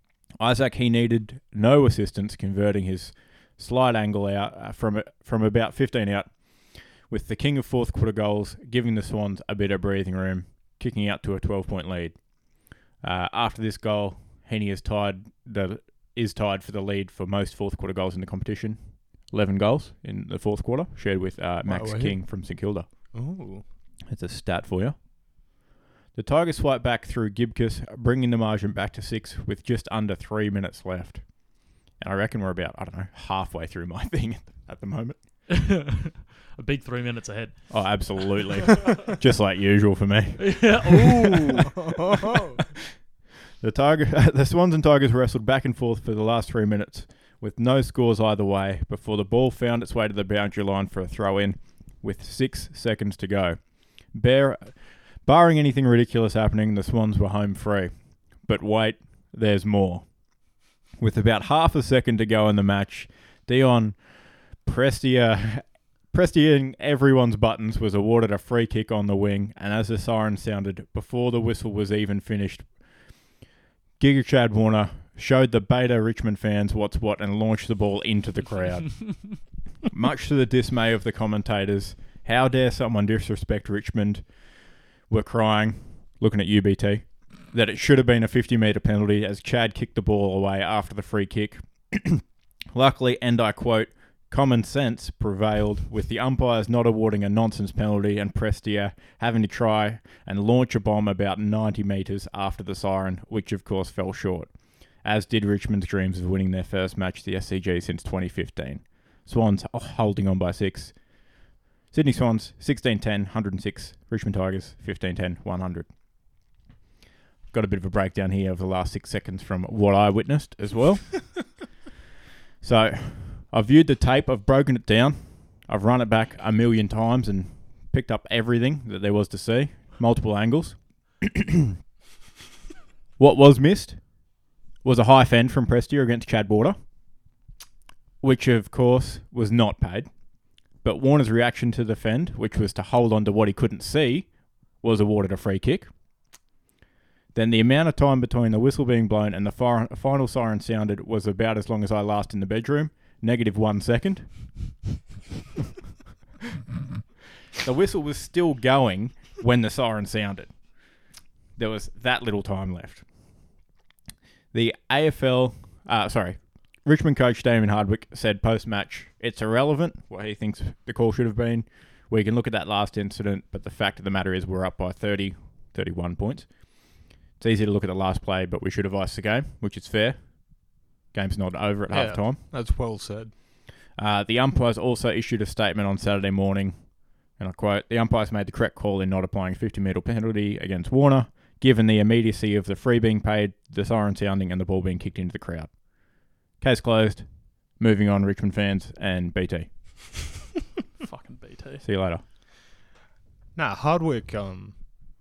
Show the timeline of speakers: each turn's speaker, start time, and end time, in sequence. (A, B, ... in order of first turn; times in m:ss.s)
0:00.4-0:06.4 A
0:07.0-0:12.2 A
0:13.0-0:22.8 A
0:21.6-0:22.2 B
0:23.1-0:23.6 B
0:24.1-0:25.0 A
0:26.1-0:31.4 A
0:32.0-0:35.2 A
0:35.5-0:38.4 C
0:37.7-0:41.6 A
0:40.4-0:41.7 C
0:41.7-0:42.6 B
0:43.6-0:53.6 A
0:54.1-1:00.1 A
1:01.0-1:12.7 A
1:14.0-1:24.3 A
1:25.1-1:44.5 A
1:45.0-1:51.0 A
1:51.9-1:55.9 A
1:57.5-2:01.5 A
2:02.6-2:11.7 A
2:13.2-2:14.0 A
2:14.8-2:16.8 A
2:18.2-2:20.1 A
2:20.8-2:25.9 A
2:27.3-2:34.7 A
2:37.6-2:40.6 A
2:41.6-2:43.1 A
2:44.5-2:56.6 A
2:57.4-3:02.4 A
3:01.9-3:03.3 B
3:04.0-3:15.8 A
3:16.6-3:20.0 A
3:21.0-3:21.8 C
3:21.8-3:22.2 A
3:23.5-3:24.8 B